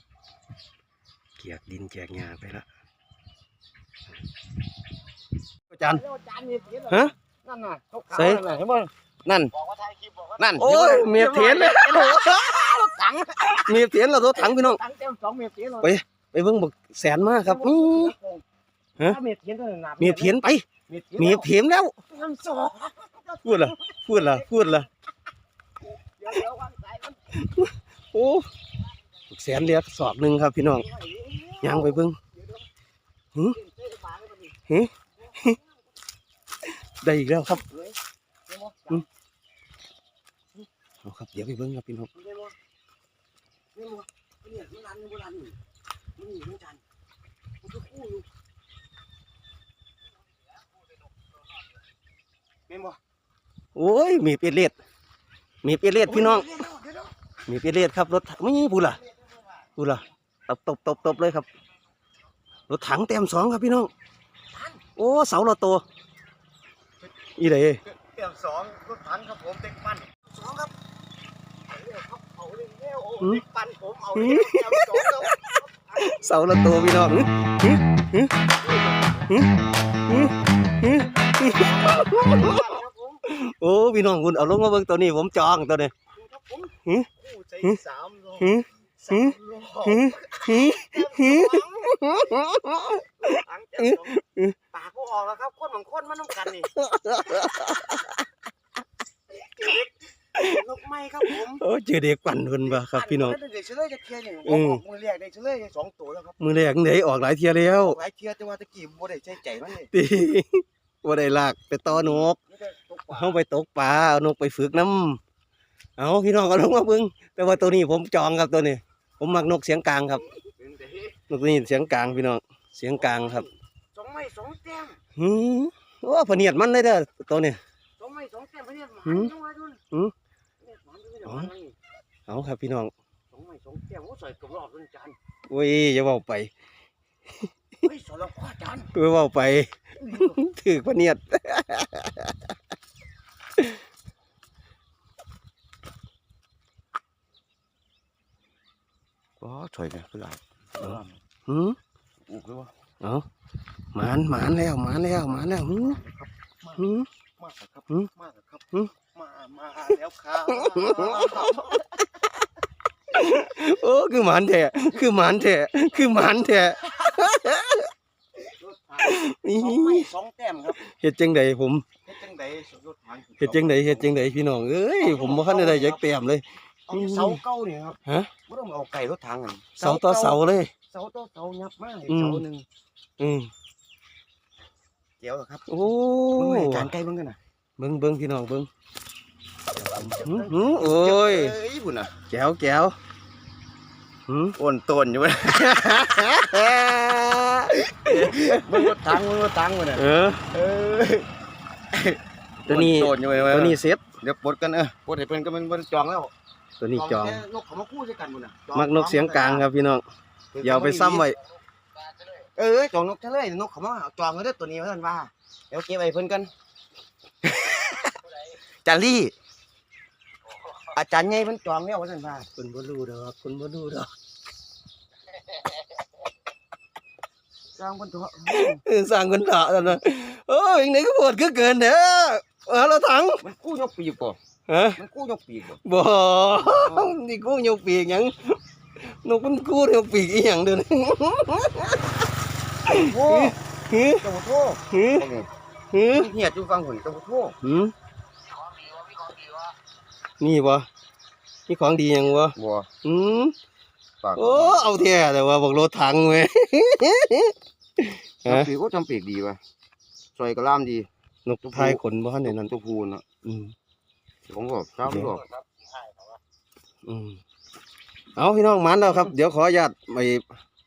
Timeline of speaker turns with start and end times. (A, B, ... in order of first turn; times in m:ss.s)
0:01.4-0:02.6 A
0:05.7-0:06.0 A
0:05.8-0:15.9 B
0:08.1-0:08.4 A
0:10.6-0:12.7 A
0:13.4-0:14.8 A
0:15.8-0:18.1 A
0:17.4-0:18.4 B
0:19.0-0:21.5 B
0:20.0-0:20.6 A
0:21.2-0:21.9 A
0:22.1-0:24.8 B
0:23.4-0:24.9 A
0:26.2-0:27.2 B
0:27.3-0:28.5 A
0:29.3-0:30.8 A
0:30.7-0:32.6 B
0:31.6-0:32.2 A
0:33.5-0:34.6 B
0:34.7-0:35.6 A
0:35.2-0:35.8 B
0:36.6-0:37.6 A
0:37.5-0:39.0 B
0:41.0-0:42.1 A
0:42.1-0:42.5 B
0:43.7-0:45.6 B
0:46.2-0:46.8 B
0:47.6-0:48.3 B
0:52.7-0:53.0 B
0:53.7-0:54.7 A
0:55.6-0:56.4 A
0:56.0-0:57.1 B
0:57.5-0:59.0 A
0:59.8-1:01.5 A
1:02.7-1:03.9 A
1:04.5-1:04.8 B
1:05.0-1:05.8 A
1:07.4-1:07.8 A
1:07.8-1:10.7 B
1:11.7-1:16.2 B
1:14.2-1:18.3 A
1:18.6-1:19.3 B
1:20.1-1:22.7 A
1:20.8-1:23.2 B
1:23.2-1:25.9 A
1:26.1-1:32.1 B
1:28.4-1:29.3 A
1:29.9-1:34.6 A
1:33.2-1:36.7 B
1:36.7-1:38.3 A
1:39.3-1:41.6 B
1:40.3-1:40.6 A
1:41.2-1:43.4 A
1:42.6-1:46.4 B
1:44.4-1:44.8 A
1:46.4-1:48.0 A
1:47.7-1:49.9 B
1:49.9-1:52.4 A
1:51.9-1:53.4 B
1:53.1-1:55.2 A
1:56.0-2:00.2 A
2:00.2-2:01.2 B
2:01.3-2:03.4 A
2:02.9-2:05.0 B
2:05.2-2:07.6 A
2:08.0-2:09.8 B
2:09.0-2:09.3 A
2:10.6-2:11.7 B
2:11.2-2:11.5 A
2:12.3-2:12.9 A
2:13.3-2:15.2 B
2:15.5-2:16.5 A
2:17.8-2:18.9 B
2:18.9-2:22.5 A
2:20.0-2:20.4 B
2:29.4-2:31.2 B
2:30.8-2:31.8 A
2:32.3-2:32.7 B
2:33.0-2:33.2 A
2:33.9-2:36.0 A
2:35.2-2:42.3 B
2:36.8-2:37.1 A
2:40.5-2:41.7 A
2:43.1-2:47.9 A
2:48.4-2:50.8 B
2:49.0-2:50.1 A
2:50.8-2:51.8 A
2:52.0-2:54.2 B
2:53.4-2:57.4 A
2:55.0-2:56.0 B
2:56.9-3:02.6 B
2:58.0-2:58.3 A
2:59.8-3:00.7 A
3:02.1-3:02.4 A
3:03.2-3:03.5 A
3:05.2-3:05.8 B
3:05.7-3:06.9 A
3:06.4-3:07.4 B
3:07.8-3:08.7 A
3:09.8-3:11.5 A
3:09.8-3:12.1 B
3:12.3-3:13.0 A
3:14.3-3:14.6 A
3:14.6-3:16.6 B
3:15.5-3:19.0 A
3:17.8-3:21.3 B
3:20.0-3:20.4 A
3:21.9-3:26.3 B
3:22.6-3:24.0 A
3:26.8-3:27.4 A
3:26.9-3:29.6 B
3:28.7-3:30.0 A
3:30.5-3:31.3 B
3:30.6-3:31.4 A
3:32.6-3:36.5 B
3:37.4-3:38.1 B
3:38.8-3:39.3 B
3:40.9-3:42.5 B
3:42.6-3:44.1 A
3:47.8-3:48.8 B
3:48.5-3:53.4 A
3:53.4-3:54.4 B
3:54.7-3:55.0 A
3:54.9-3:55.8 B
3:55.8-4:02.0 A
3:56.5-3:57.1 B
4:02.9-4:03.6 B
4:02.9-4:04.2 A
4:04.2-4:05.5 B
4:04.9-4:05.3 A
4:05.9-4:06.3 A
4:06.1-4:07.6 B
4:07.6-4:07.9 A
4:10.4-4:10.9 A
4:11.7-4:13.5 A
4:12.6-4:12.9 B
4:14.2-4:14.9 B
4:14.4-4:18.7 A
4:18.4-4:19.6 B
4:20.4-4:21.1 B
4:21.4-4:22.7 A
4:21.6-4:23.2 B
4:23.4-4:23.7 A
4:24.5-4:25.5 B
4:25.0-4:25.3 A
4:27.0-4:27.4 A
4:28.4-4:30.4 A